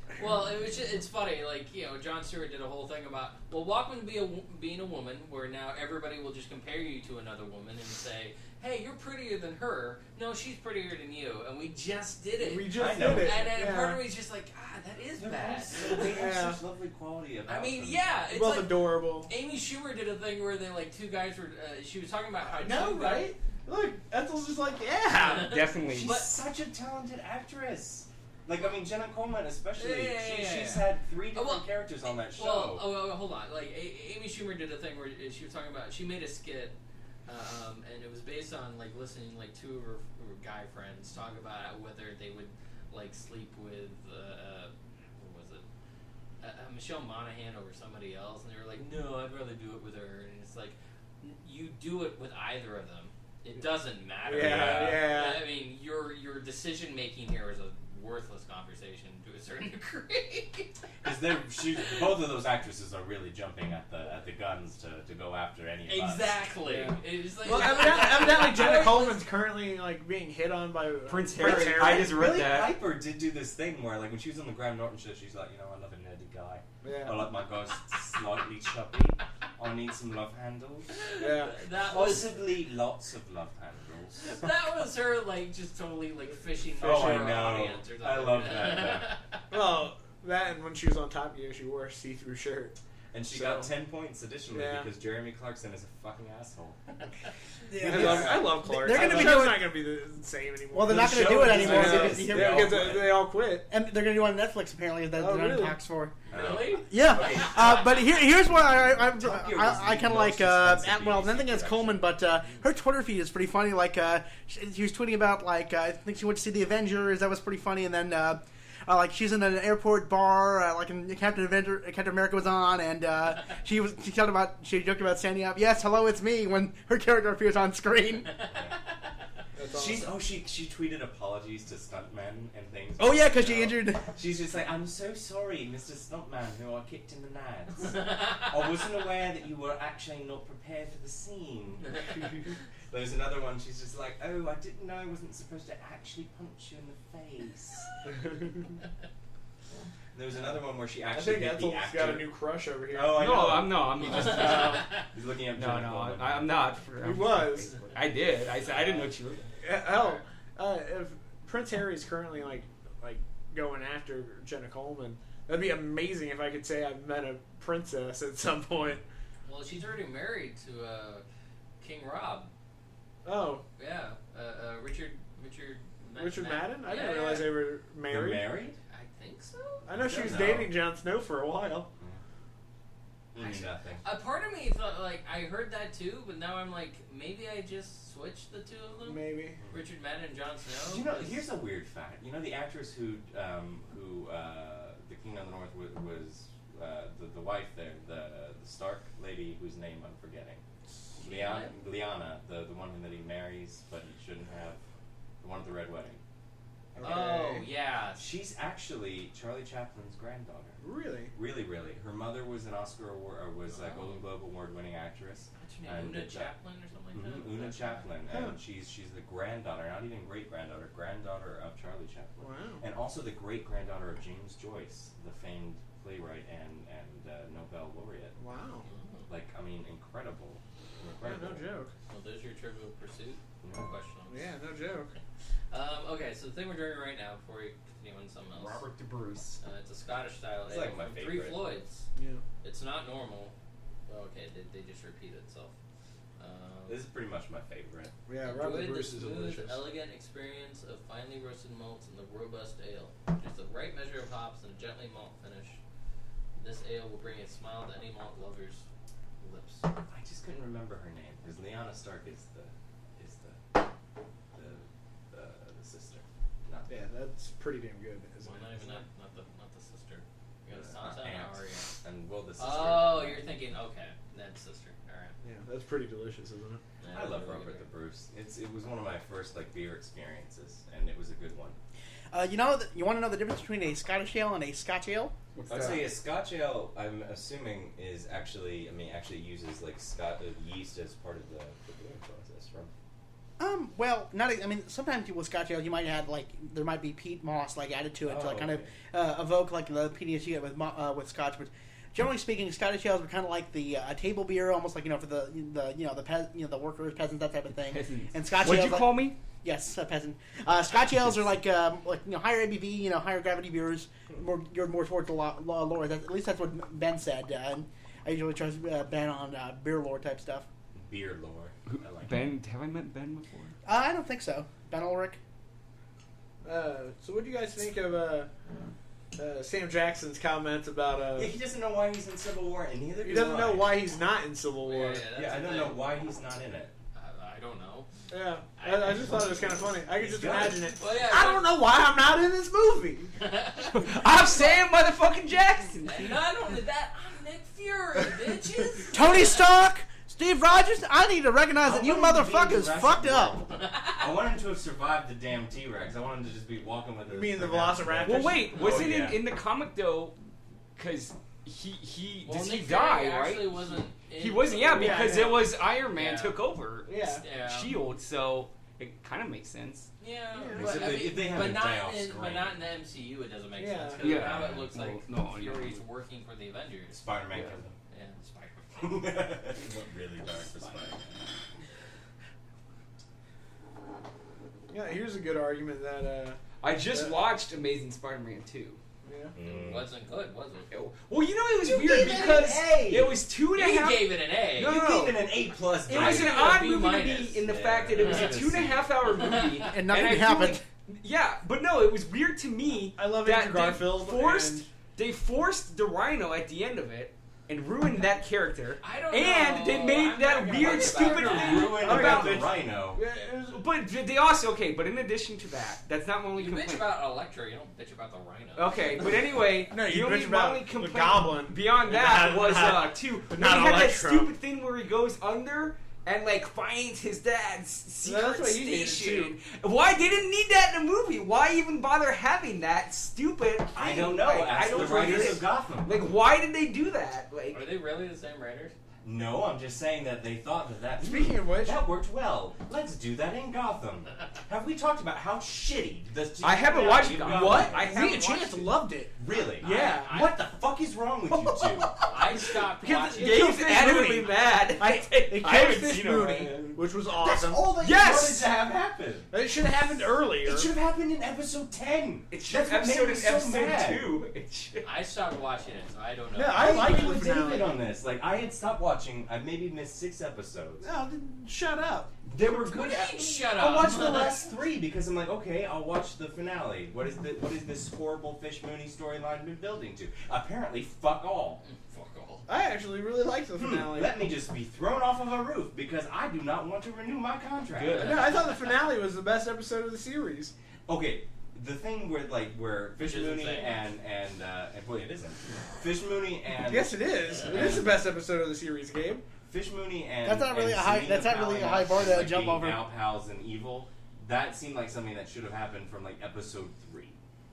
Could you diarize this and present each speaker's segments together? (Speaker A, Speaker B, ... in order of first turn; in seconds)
Speaker A: 0.2-16.1, 17.5-23.3, 25.1-26.3, 29.8-31.6, 32.3-45.6, 46.4-60.7, 65.9-69.3, 80.9-82.4, 84.2-89.4, 106.3-108.2, 154.5-154.8, 158.6-160.2, 169.4-171.2, 171.8-172.5, 173.8-177.6, 178.9-180.5, 183.4-191.4, 201.2-201.7, 207.0-208.2, 213.7-214.2, 215.6-218.1, 228.8-229.3, 232.1-234.4, 235.7-238.8, 239.6-242.0, 242.6-243.5, 244.1-245.7, 246.4-247.0, 248.4-255.8, 256.6-258.8, 259.4-259.9, 268.4-271.9, 272.6-275.3, 277.0-277.8, 334.8-336.1, 337.1-338.1, 338.8-339.7, 341.0-341.7, 343.4-344.8, 346.0-349.6, 353.7-354.3, 362.4-366.6, 367.4-368.0, 370.2-377.3, 378.1-379.5, 380.5-381.1, 389.6-390.9, 393.7-395.0, 396.1-397.6, 398.1-398.6, 399.3-399.8, 409.0-412.1, 416.5-419.2, 437.7-438.9, 449.8-450.6, 452.3-453.8, 465.0-467.6, 472.7-474.7, 481.8-482.6, 488.3-488.6, 493.2-494.0
Speaker B: 12.4-14.0, 16.0-16.6, 18.3-19.3, 22.5-25.6, 54.3-55.5, 66.7-72.2, 76.8-77.3, 81.2-81.6, 86.8-87.7, 89.5-92.7, 93.3-93.7, 94.5-94.9, 97.8-103.7, 105.2-105.8, 129.5-130.1, 151.1-153.6, 157.0-157.7, 159.6-169.0, 173.2-173.6, 176.2-178.5, 179.9-181.9, 189.0-189.6, 206.9-207.7, 210.8-211.3, 218.3-218.5, 222.4-222.8, 228.3-228.9, 231.2-231.9, 234.3-235.1, 242.2-242.4, 248.3-249.8, 266.9-269.0, 275.4-276.8, 326.6-328.5, 329.4-331.5, 333.2-335.2, 338.3-343.3, 357.3-358.9, 364.9-365.7, 367.1-367.4, 370.5-371.1, 373.8-374.4, 384.9-387.4, 389.2-389.5, 403.2-404.9, 411.8-413.8, 419.9-424.5, 428.2-429.6, 434.9-435.6, 441.2-442.0, 446.9-450.4, 453.0-457.9, 459.5-460.9, 466.5-468.0, 471.0-472.3, 482.7-484.5, 488.2-490.7, 496.9-499.4
Speaker C: 12.7-13.5, 15.2-18.2, 25.9-32.9, 54.4-55.0, 61.0-66.4, 71.4-80.9, 81.8-84.3, 86.8-89.1, 93.1-96.8, 97.8-99.4, 100.8-103.2, 106.3-107.9, 108.8-112.0, 128.5-128.8, 129.7-147.9, 150.1-156.6, 178.1-178.8, 179.9-180.7, 183.3-184.1, 190.8-200.6, 201.2-204.8, 205.4-206.2, 208.2-210.8, 211.3-216.5, 217.1-228.3, 229.3-231.7, 233.6-233.9, 240.7-241.6, 246.9-248.1, 260.1-263.8, 264.5-266.9, 270.7-273.6, 277.1-281.8, 285.7-292.9, 298.2-298.9, 320.9-322.5, 331.3-334.1, 335.3-336.9, 340.1-340.9, 351.8-359.4, 370.7-372.8, 377.1-377.9, 379.0-381.3, 389.5-390.1, 391.8-393.4, 394.8-396.9, 397.6-399.1, 410.8-413.2, 433.9-436.3, 439.2-448.1, 449.4-452.1, 457.4-459.5, 460.6-464.3, 466.7-471.1, 472.5-481.8, 483.8-488.5, 491.1-498.2, 499.7-507.4
Speaker D: 25.4-26.2, 71.1-72.8, 153.1-155.0, 155.5-159.4, 238.5-239.6, 285.5-286.1, 307.7-309.4, 311.1-311.4, 321.9-323.7, 343.9-346.3, 358.2-360.4, 360.9-370.1, 374.2-376.0, 377.5-377.8, 386.8-389.0, 390.9-412.7, 413.7-417.1, 418.8-437.9, 446.6-448.9, 452.2-452.7, 453.3-457.0, 458.0-458.7, 462.5-465.1, 488.0-488.5
Speaker E: 97.7-99.8, 100.7-102.9, 103.7-106.2, 106.8-128.4, 133.0-134.1, 282.3-285.3, 293.6-320.6, 323.8-325.4, 349.1-353.6, 399.9-400.8, 500.4-503.0